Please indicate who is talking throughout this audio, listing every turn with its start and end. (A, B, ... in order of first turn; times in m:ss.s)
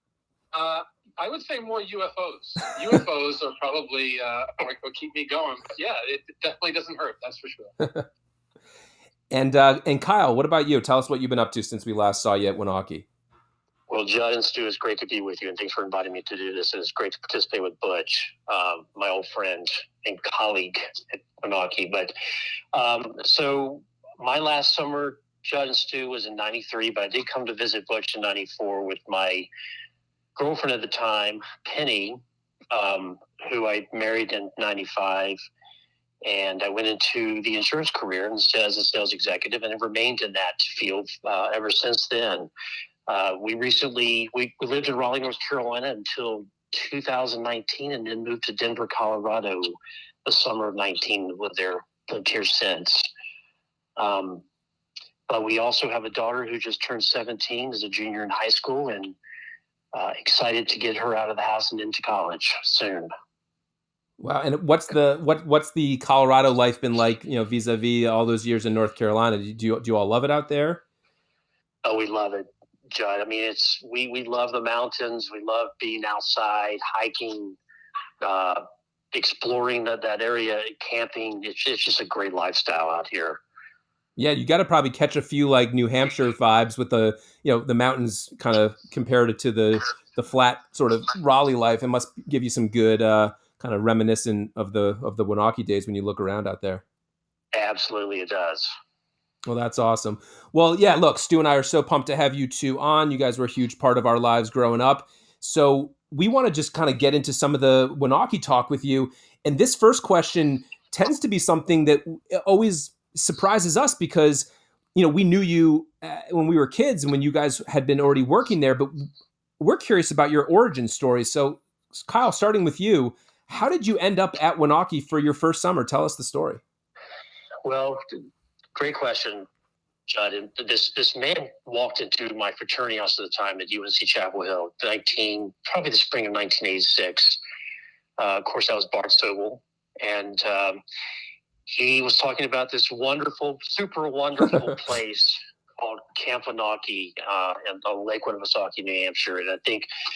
0:00.5-0:07.9 A
0:09.3-0:13.0 B
0:13.9-0:22.1 C
0:22.7-0:29.5 C
0:30.4-0:35.4 C
0:36.2-0:42.5 C
0:43.1-0:53.1 C
0:54.0-0:54.4 C
0:55.3-0:59.2 C
0:59.9-1:03.1 C
1:04.2-1:10.8 B
1:11.8-1:17.6 C
1:18.2-1:23.4 C
1:24.2-1:36.8 B
1:37.5-1:38.7 C
1:39.4-1:59.1 B
1:59.6-2:06.6 B
2:07.6-2:08.0 C
2:08.7-2:09.5 C
2:10.1-2:17.4 C
2:18.2-2:20.8 C
2:21.6-2:29.9 C